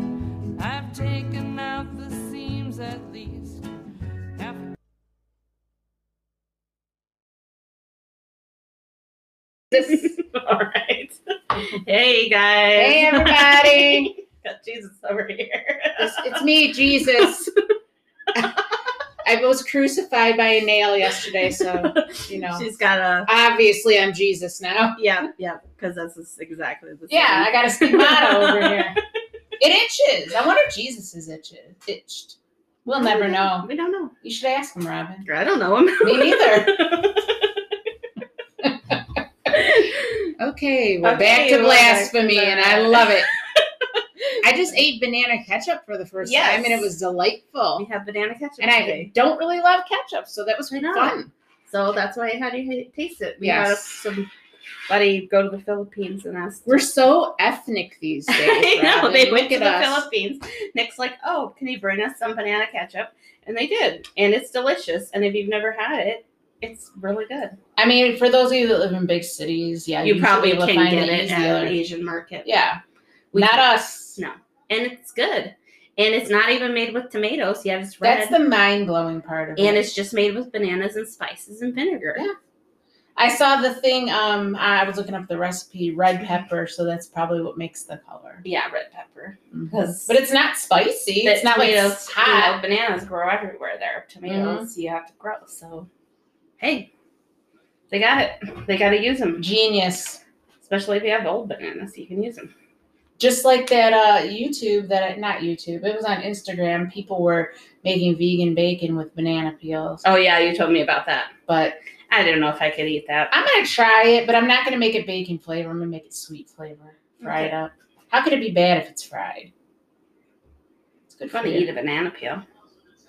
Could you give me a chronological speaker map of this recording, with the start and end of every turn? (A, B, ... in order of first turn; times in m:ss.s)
0:00.6-0:03.7 A
0:04.3-0:04.7 A
0:09.7-0:17.5 B
0:12.8-0:14.1 C
0:16.0-0:17.5 C
0:19.2-0:22.7 C
0:21.6-0:23.3 B
0:23.2-0:25.0 C
0:25.0-0:28.8 B
0:27.1-0:29.0 C
0:29.6-0:33.7 C
0:32.9-0:34.1 B
0:34.2-0:35.3 C
0:35.2-0:37.5 B
0:36.0-0:37.0 C
0:38.6-0:39.0 C
0:39.5-0:40.3 B
0:40.4-0:43.3 C
0:41.0-0:43.3 B
0:44.0-0:44.3 B
0:44.4-0:47.8 C
0:46.2-0:46.9 B
0:47.8-0:49.1 B
0:48.6-0:51.3 C
0:50.8-0:54.3 B
0:53.4-0:54.0 C
0:54.9-0:56.9 B
0:56.7-1:00.0 C
0:58.3-1:07.6 B
1:07.8-1:11.8 C
1:10.0-1:12.5 B
1:12.4-1:12.8 C
1:13.3-1:18.4 B
1:13.3-1:14.2 C
1:18.0-1:19.9 C
1:19.6-1:22.2 B
1:23.2-1:28.4 C
1:28.4-1:30.2 B
1:29.5-1:32.6 C
1:31.2-1:35.9 B
1:34.2-1:34.6 C
1:36.6-1:36.9 B
1:37.9-1:39.5 B
1:39.4-1:40.2 C
1:40.6-1:42.5 B
1:43.2-1:50.0 C
1:50.0-1:51.3 B
1:51.5-1:51.8 C
1:52.1-1:53.3 B
1:53.3-1:59.5 C
1:57.2-1:57.5 B
2:01.1-2:01.7 C
2:01.3-2:02.4 B